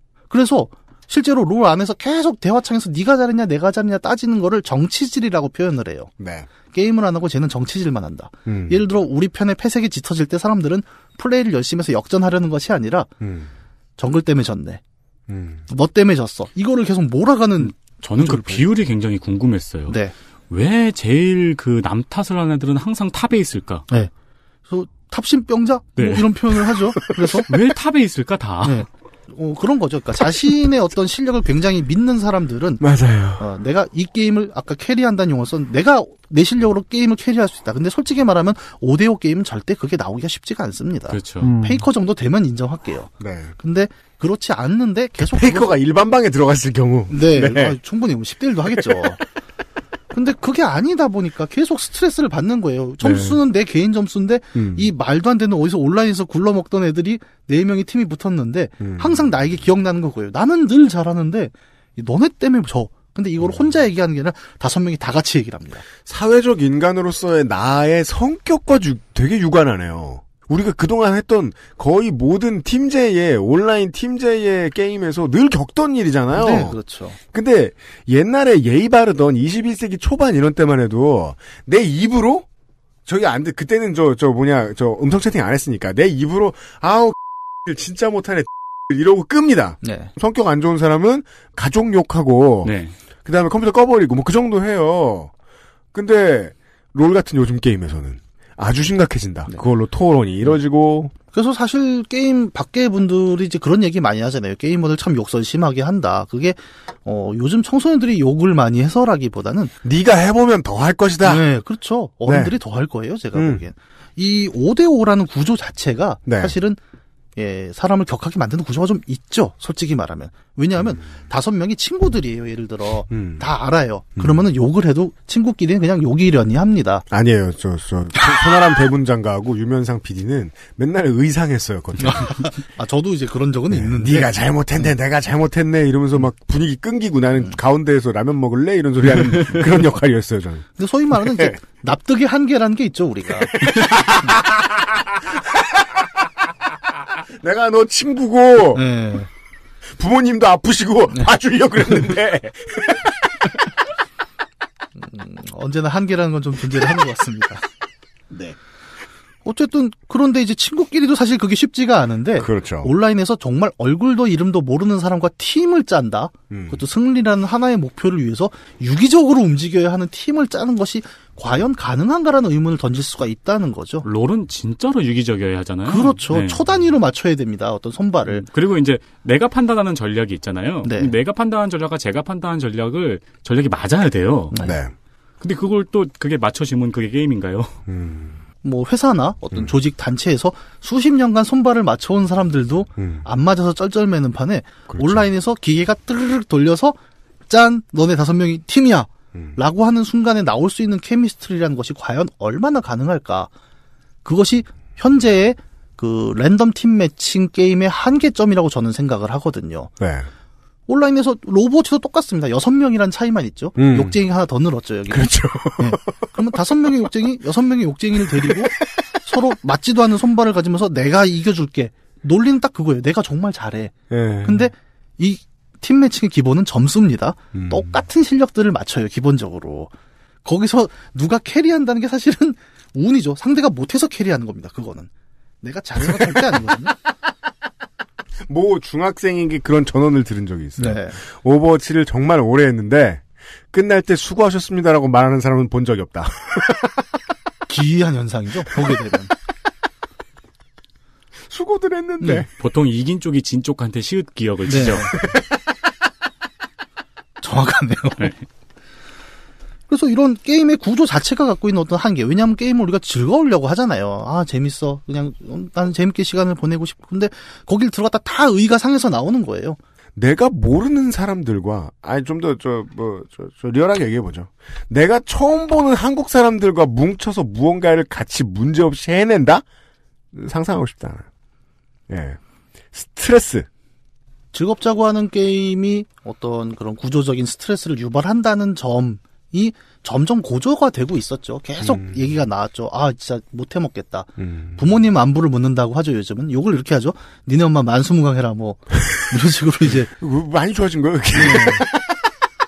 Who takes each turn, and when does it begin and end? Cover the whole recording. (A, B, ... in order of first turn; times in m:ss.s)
0:00.3-0:06.1 A
0:06.2-0:06.5 B
0:06.7-0:13.1 A
0:08.5-0:08.8 B
0:13.2-0:13.5 B
0:14.0-0:14.8 A
0:15.3-0:15.6 B
0:15.7-0:18.6 A
0:17.6-0:20.0 C
0:19.9-0:20.1 A
0:20.5-0:23.9 C
0:24.7-0:27.5 A
0:26.0-0:26.3 C
0:27.5-0:28.9 C
0:28.6-0:32.8 A
0:32.8-0:33.4 B
0:33.4-0:45.7 A
0:41.1-0:41.5 C
0:41.4-0:41.8 B
0:43.2-0:43.5 B
0:45.2-0:47.8 B
0:47.1-0:49.2 A
0:48.7-0:49.2 B
0:50.1-1:05.8 A
0:53.0-0:53.4 B
0:54.6-0:54.9 B
0:58.8-0:59.3 B
1:06.0-1:16.8 B
1:16.4-1:17.2 A
1:17.3-1:22.5 B
1:23.1-1:35.3 B
1:29.8-1:30.1 A
1:32.6-1:33.0 C
1:35.9-1:41.1 B
1:41.3-1:49.7 A
1:49.8-1:51.5 B
1:51.2-1:56.8 A
1:52.3-1:52.6 B
1:53.4-1:53.6 B
1:56.3-1:56.6 B
1:57.4-2:07.1 A
2:03.1-2:03.4 B
2:04.2-2:04.4 B
2:07.1-2:12.5 B
2:08.2-2:08.4 A
2:12.0-2:14.3 A
2:13.7-2:21.6 B
2:20.8-2:24.4 A
2:23.6-2:25.6 B
2:27.4-2:28.8 B
2:28.7-2:29.3 A
2:30.0-2:33.5 B
2:35.0-2:37.6 A
2:38.3-2:38.6 B
2:39.4-2:54.1 A
2:42.4-2:42.9 B
2:46.5-2:46.8 B
2:54.0-2:56.6 C
2:55.9-2:58.5 A
2:58.3-3:04.6 C
3:00.8-3:01.1 A
3:04.6-3:04.9 B
3:05.4-3:07.8 C
3:07.9-3:08.4 B
3:08.6-3:17.0 A
3:13.0-3:13.2 B
3:14.9-3:15.3 B
3:17.5-3:23.5 A
3:24.2-3:29.9 A
3:30.0-3:30.3 B
3:30.9-3:49.9 A
3:33.8-3:34.2 B
3:35.1-3:36.0 B
3:44.1-3:44.7 B
3:47.5-3:48.0 B
3:50.4-3:55.1 A
3:55.6-3:57.0 A
3:56.0-3:56.9 B
3:58.5-4:07.0 B
4:00.8-4:01.2 A
4:07.7-4:09.3 A
4:11.5-4:12.5 B
4:12.5-4:15.2 C
4:14.7-4:15.1 A
4:17.4-4:18.3 A
4:19.9-4:29.8 A
4:30.2-4:39.6 B
4:40.3-4:41.3 B
4:42.1-4:42.4 B
4:42.9-4:43.7 B
4:44.5-5:00.1 A
4:51.8-4:52.2 B
4:54.4-4:54.8 B
5:00.1-5:02.2 B
5:01.4-5:01.8 A